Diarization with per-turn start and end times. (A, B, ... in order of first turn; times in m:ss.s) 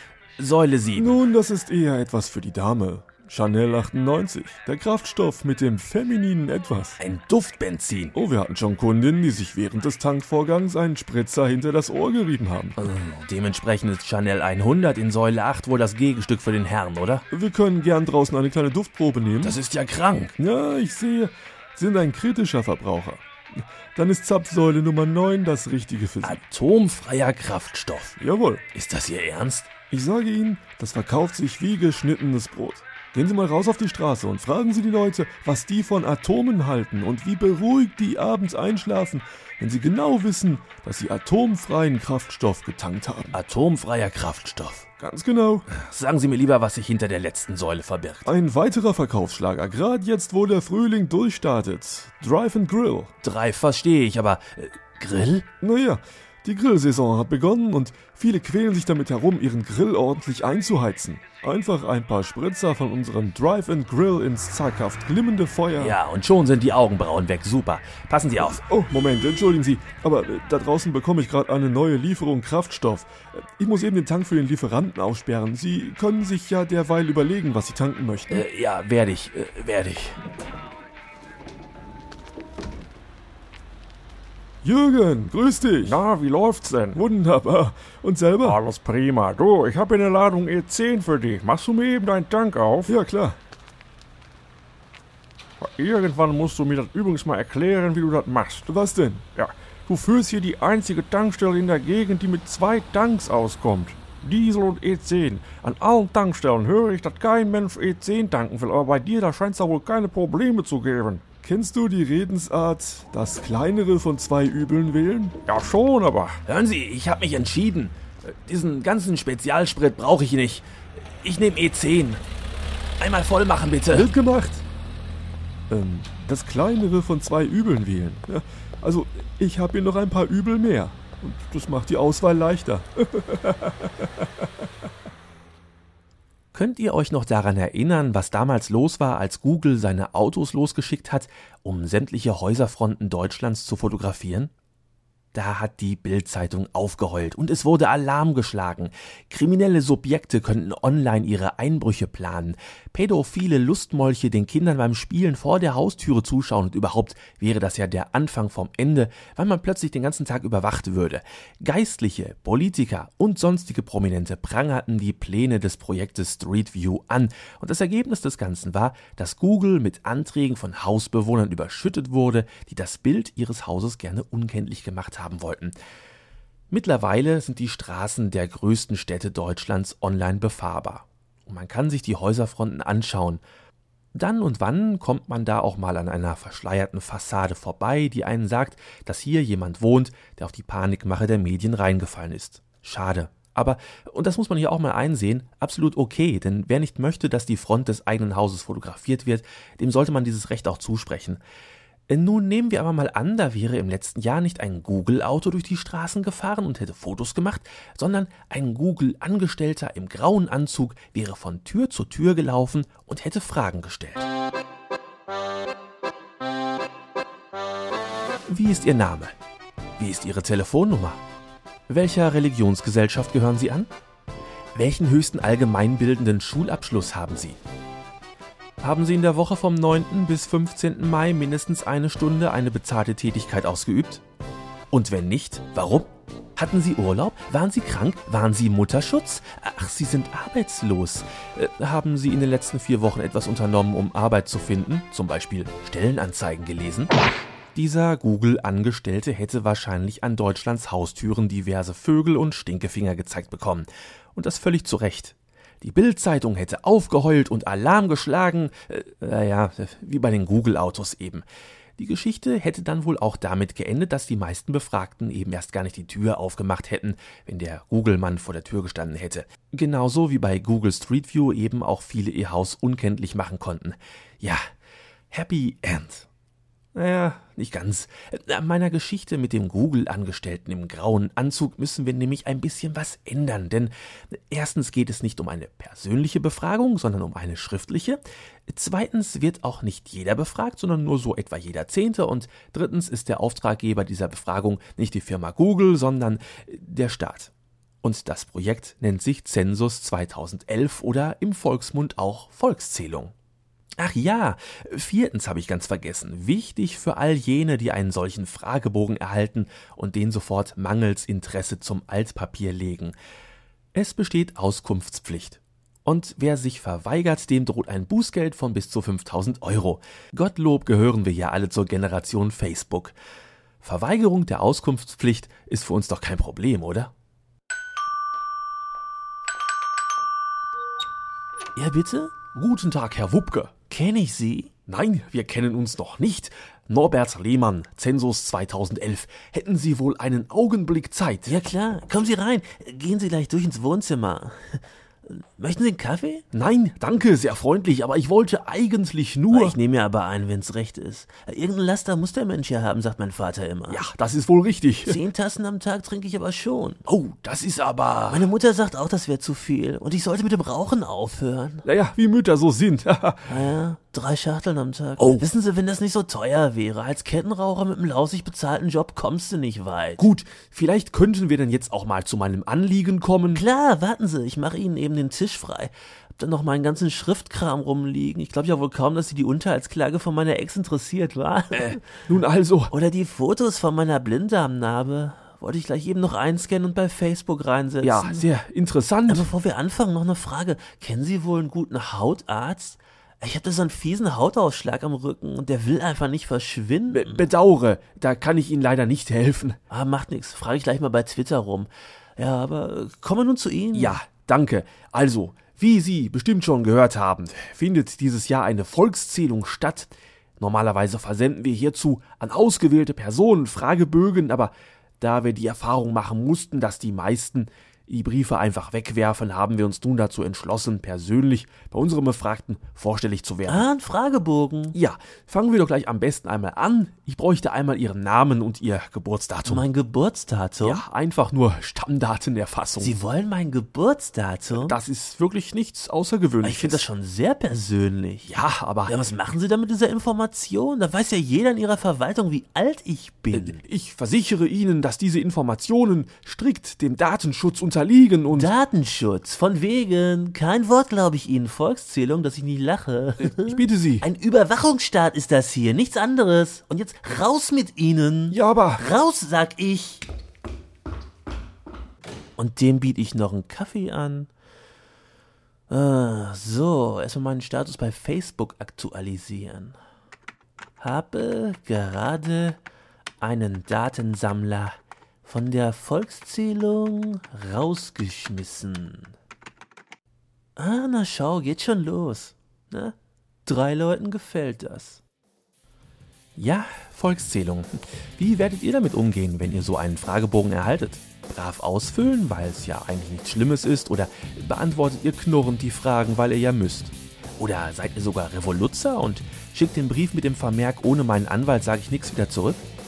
0:00.4-0:01.2 A
0:01.0-0:07.0 B
0:07.0-0:08.1 A
0:08.1-0:12.8 B
0:12.8-0:17.2 A
0:17.3-0:19.6 B
0:19.4-0:20.3 A
0:20.4-0:26.4 B
0:26.2-0:28.2 A
0:28.2-0:28.6 B
0:28.7-0:29.7 A
0:29.9-0:43.4 B
0:43.3-0:44.9 A
0:45.0-0:45.7 B
0:45.7-0:48.3 A
0:48.2-0:53.1 B
0:53.2-0:55.4 A
0:55.6-1:06.0 B
1:05.8-1:08.6 A
1:08.4-1:18.4 B
1:18.3-1:20.2 A
1:24.6-1:26.0 B
1:25.8-1:27.0 C
1:26.9-1:28.6 B
1:28.4-1:32.9 C
1:32.9-1:33.4 B
1:35.6-1:38.7 C
1:38.7-1:39.3 B
1:39.4-1:51.2 C
1:51.4-1:55.4 B
1:55.4-1:56.4 C
1:56.4-2:02.2 A
2:03.0-2:04.1 A
2:03.9-2:04.6 B
2:05.7-2:14.0 B
2:16.5-2:24.5 A
2:25.3-2:55.7 A
2:56.7-3:03.4 A
3:04.1-3:21.4 A
3:22.1-3:34.3 A
3:38.5-3:39.3 A
3:40.0-3:41.2 A
3:41.9-3:43.9 A
3:44.7-3:47.6 A
3:48.8-3:54.2 A
3:54.9-4:07.1 A
4:07.7-4:21.4 A
4:22.0-4:34.6 A
4:35.3-4:36.3 A
4:36.9-4:57.5 A
4:58.0-5:03.3 A
5:04.0-5:13.1 A
5:13.9-5:23.1 A
5:23.8-5:27.1 A
5:31.8-5:32.4 D
5:32.4-5:33.8 A
5:33.8-5:34.7 D
5:34.8-5:41.6 A
5:41.5-5:46.4 D
5:46.5-5:49.8 A
5:49.8-5:54.0 D
5:53.9-5:54.7 A
5:54.5-5:55.2 B
5:55.0-5:57.0 D
5:57.0-5:58.5 A
5:58.3-6:01.8 D
6:01.8-6:03.7 B
6:03.5-6:10.2 D
6:10.2-6:13.6 A
6:13.5-6:22.0 D
6:21.7-6:22.9 A
6:22.9-6:28.2 D
6:28.0-6:29.5 A
6:29.3-6:37.4 D
6:37.1-6:39.8 A
6:39.9-6:44.2 D
6:43.9-7:03.9 A
7:03.7-7:05.0 D
7:04.9-7:09.9 A
7:09.6-7:11.0 D
7:10.8-7:13.1 A
7:13.0-7:15.0 D
7:14.7-7:17.0 A
7:16.6-7:16.9 C
7:16.9-7:18.5 D
7:18.4-7:19.2 A
7:19.1-7:23.8 D
7:23.5-7:28.5 A
7:23.9-7:24.2 B
7:25.9-7:26.8 B
7:27.6-7:28.7 B
7:28.5-7:40.2 D
7:33.4-7:34.2 B
7:38.5-7:39.0 B
7:42.7-7:44.4 D
7:45.9-7:49.9 D
7:51.0-7:52.8 D
7:53.5-7:54.9 D
7:55.4-7:59.3 D
8:00.8-8:03.1 D
8:03.6-8:05.2 D
8:06.6-8:22.8 A